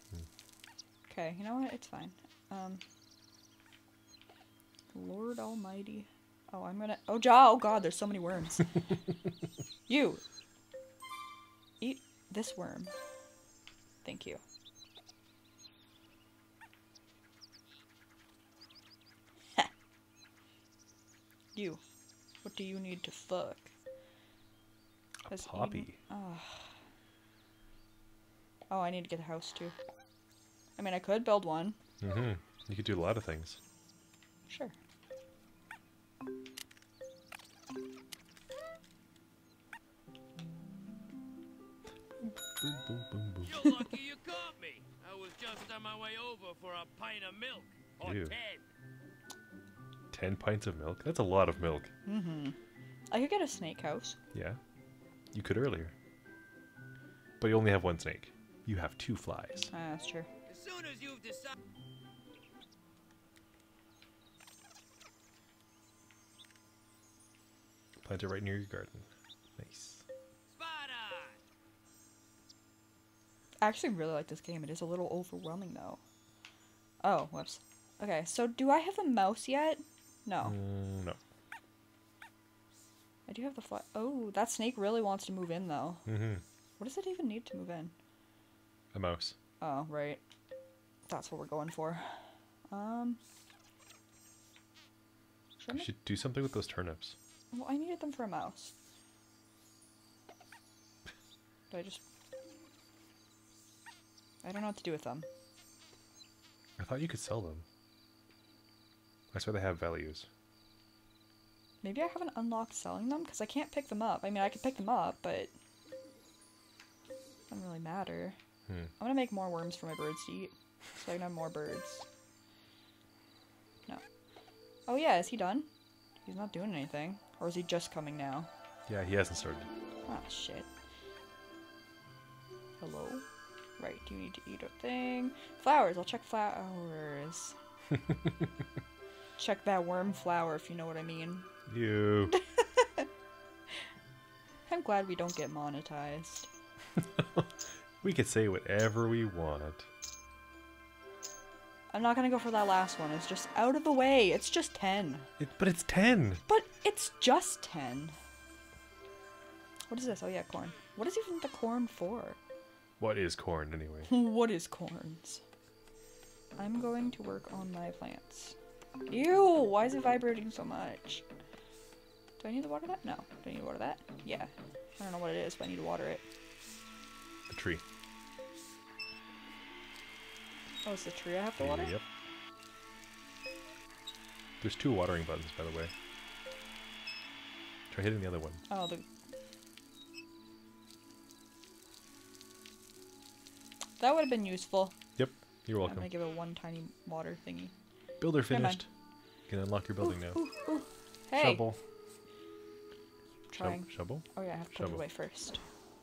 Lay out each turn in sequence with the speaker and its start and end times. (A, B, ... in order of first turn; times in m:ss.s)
0:01.1-0:02.8 A
0:04.9-0:08.8 A
0:09.9-0:10.2 A
0:11.8-0:12.9 A
0:14.0-0:14.4 A
0:21.6-0:21.8 A
0:22.4-0:23.7 A
0:25.2-0:26.0 B
0:25.3-0:26.7 A
0:28.7-0:29.8 A
0:30.8-0:31.8 A
0:32.0-0:33.6 B
0:34.5-0:34.7 A
0:42.2-0:43.8 B
0:43.4-0:48.6 C
0:48.0-0:48.4 B
0:50.1-0:51.9 B
0:52.1-0:52.6 A
0:53.1-0:54.2 A
0:54.3-0:54.6 B
0:55.3-0:55.9 B
0:57.4-0:59.7 B
0:59.7-1:00.3 A
1:00.5-1:01.5 C
1:08.0-1:10.0 B
1:10.5-1:11.4 C
1:13.6-1:16.0 A
1:17.0-1:20.6 A
1:20.4-1:21.2 B
1:23.3-1:26.1 A
1:26.1-1:26.4 B
1:26.8-1:27.9 A
1:28.9-1:29.4 B
1:29.6-1:30.2 A
1:31.1-1:33.2 A
1:35.6-1:35.9 A
1:35.7-1:37.2 B
1:37.5-1:38.7 A
1:41.7-1:42.0 A
1:44.4-1:45.3 A
1:46.8-1:47.6 B
1:49.3-1:50.3 B
1:51.8-1:55.5 A
1:57.5-1:58.4 A
1:59.0-2:02.1 A
2:04.9-2:05.7 A
2:06.2-2:08.5 A
2:08.9-2:09.7 B
2:10.1-2:10.7 A
2:12.8-2:13.2 A
2:13.8-2:17.6 A
2:19.4-2:21.5 A
2:21.7-2:22.4 B
2:22.3-2:23.1 A
2:24.7-2:26.5 A
2:27.0-2:29.9 B
2:31.9-2:35.3 A
2:35.4-2:36.4 B
2:36.5-2:38.2 A
2:39.9-2:42.4 A
2:43.0-2:44.1 B
2:44.1-2:45.4 A
2:46.6-2:48.6 A
2:49.1-2:51.2 A
2:52.4-2:56.2 A
2:57.5-2:57.8 B
3:00.8-3:02.0 A
3:01.6-3:02.0 B
3:04.6-3:05.9 B
3:07.9-3:08.6 B
3:08.7-3:09.0 A
3:14.0-3:15.0 A
3:15.2-3:16.1 B
3:15.8-3:17.7 A
3:18.2-3:18.9 B
3:18.5-3:18.8 A
3:19.5-3:20.4 B
3:20.0-3:21.6 A
3:21.4-3:21.8 B
3:23.5-3:25.6 A
3:23.6-3:25.0 B